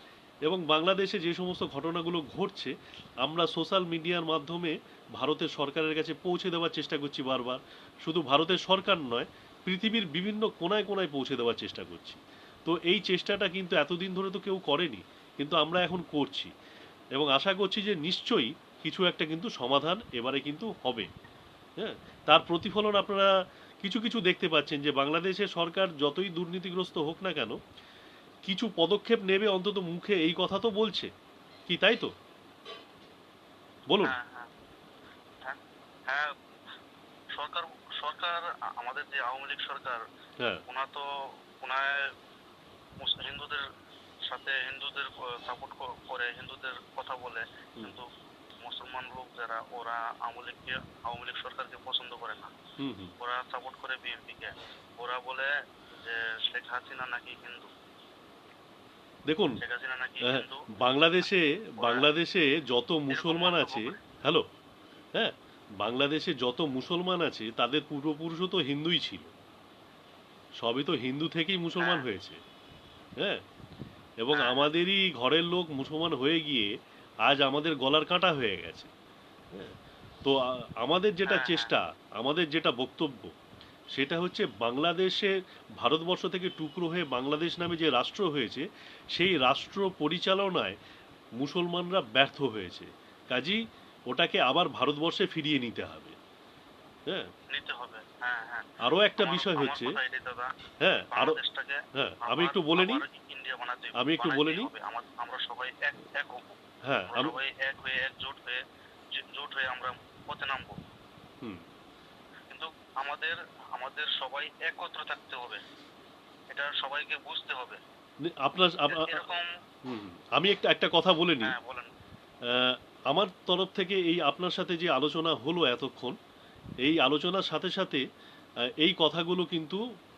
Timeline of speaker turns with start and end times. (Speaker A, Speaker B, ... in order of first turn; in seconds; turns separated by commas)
Speaker A: 0.5-16.5, Speaker A: 17.1-21.1, Speaker A: 21.8-23.3, Speaker A: 23.8-27.6, Speaker A: 28.5-31.1, Speaker A: 31.7-32.1, Speaker A: 33.9-34.1, Speaker B: 34.0-34.5, Speaker B: 35.4-36.4, Speaker B: 37.4-40.0, Speaker B: 40.7-41.1, Speaker B: 41.6-42.0, Speaker B: 43.0-43.6, Speaker B: 44.3-48.1, Speaker B: 48.6-52.5, Speaker A: 52.8-53.1, Speaker B: 53.2-55.5, Speaker B: 56.0-57.7, Speaker A: 59.3-59.6, Speaker B: 59.6-60.6, Speaker A: 60.2-64.4, Speaker B: 61.8-62.1, Speaker B: 63.1-64.0, Speaker A: 65.1-69.3, Speaker A: 70.6-72.4, Speaker A: 74.2-76.7, Speaker B: 74.3-74.6, Speaker A: 77.2-78.9, Speaker A: 80.2-83.3, Speaker B: 81.2-81.7, Speaker A: 83.9-90.8, Speaker A: 91.4-96.1, Speaker B: 97.5-100.5, Speaker A: 98.8-100.0, Speaker A: 100.8-101.4, Speaker B: 101.1-106.6, Speaker A: 101.9-103.0, Speaker A: 104.0-104.7, Speaker A: 106.8-107.3, Speaker B: 107.1-108.6, Speaker B: 109.2-110.7, Speaker B: 112.5-115.6, Speaker B: 116.5-117.8, Speaker A: 118.3-119.3, Speaker B: 118.9-119.5, Speaker A: 119.8-121.5, Speaker B: 121.4-121.9, Speaker A: 122.5-126.2, Speaker A: 126.8-128.0, Speaker A: 128.8-129.8